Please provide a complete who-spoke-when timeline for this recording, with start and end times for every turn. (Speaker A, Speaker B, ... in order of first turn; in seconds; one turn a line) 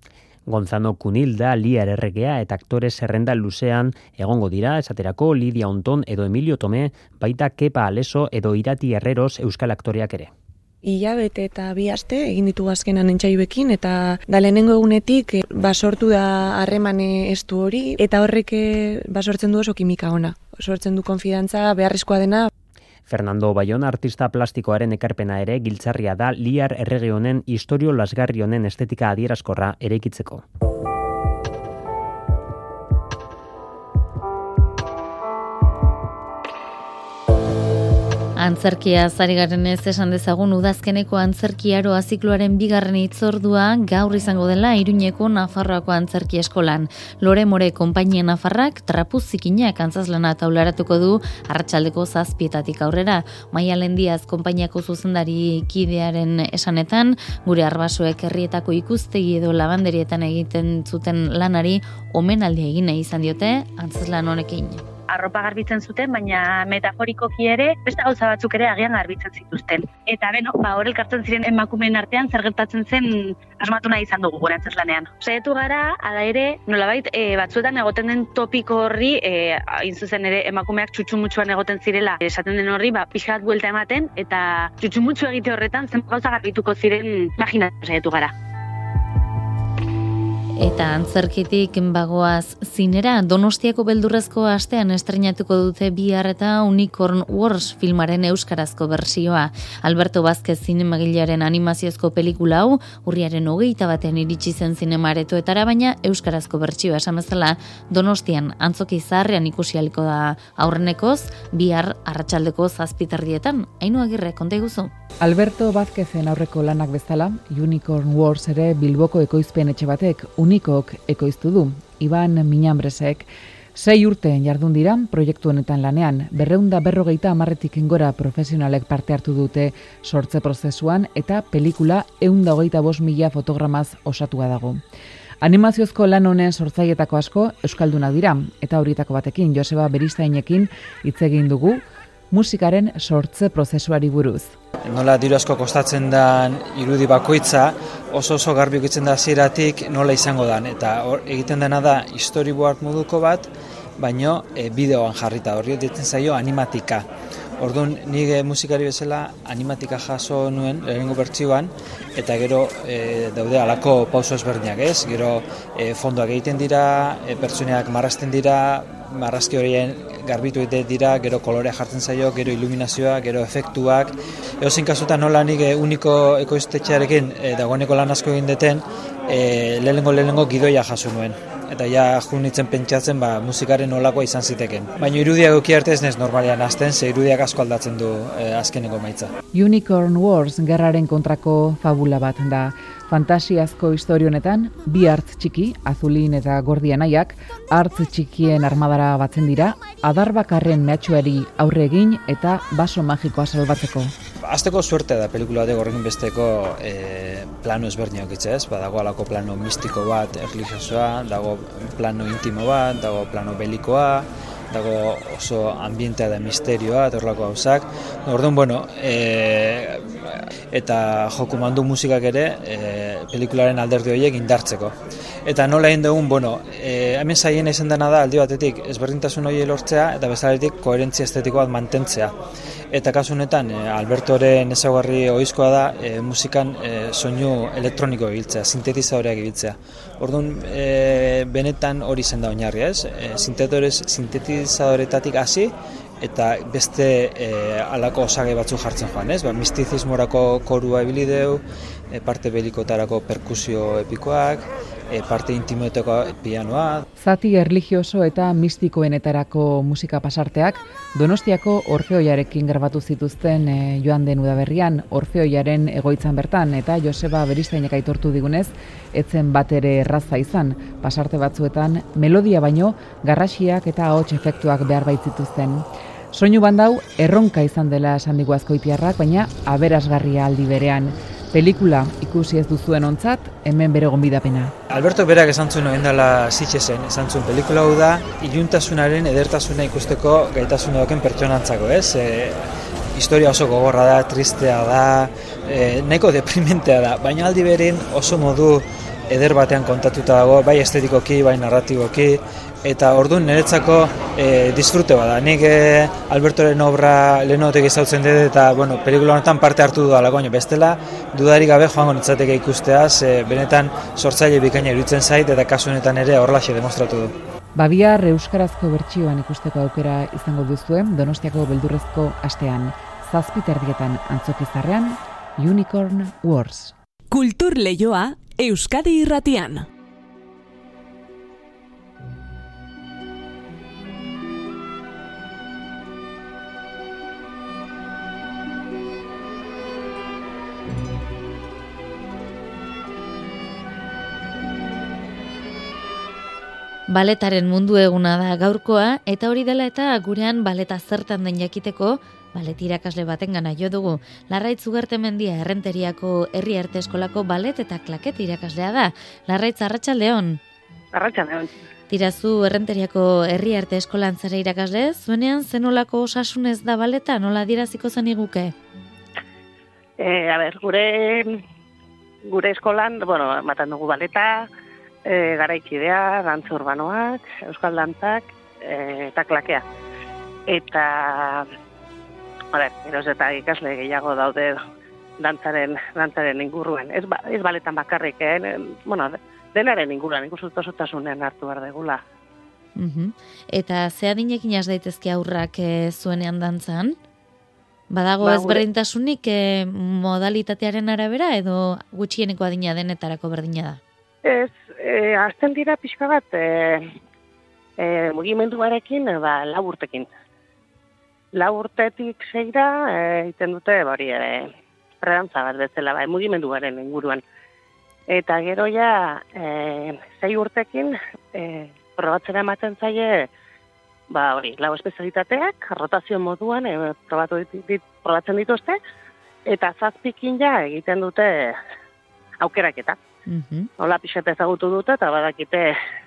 Speaker A: 0.5-10.3
Speaker B: 10.8-22.5
Speaker A: 23.1-30.4
Speaker C: 38.4-64.8
Speaker D: 65.1-88.3
Speaker C: 90.6-114.9
Speaker E: 115.2-134.8
Speaker E: 135.4-144.6
Speaker F: 144.8-157.1
Speaker F: 157.6-189.3
Speaker E: 189.5-204.1
Speaker F: 204.4-232.3
Speaker F: 232.9-257.0
Speaker E: 257.1-284.7
Speaker F: 284.9-292.6
Speaker F: 293.1-317.3
Speaker E: 317.7-326.9
Speaker G: 327.3-329.9
Speaker C: 347.1-360.6
Speaker H: 361.1-361.7
Speaker C: 362.1-368.7
Speaker H: 370.2-371.6
Speaker H: 372.4-374.7
Speaker H: 375.2-379.8
Speaker H: 380.7-381.7
Speaker H: 382.7-384.8
Speaker H: 385.4-392.2
Speaker C: 392.9-397.2
Speaker C: 398.1-404.0
Speaker H: 398.4-398.8
Speaker H: 404.4-407.1
Speaker H: 408.0-410.3
Speaker H: 411.5-417.4
Speaker H: 418.3-423.5
Speaker H: 424.3-429.0
Speaker H: 429.6-431.8
Speaker H: 432.6-433.2
Speaker C: 433.5-433.9
Speaker H: 434.0-436.0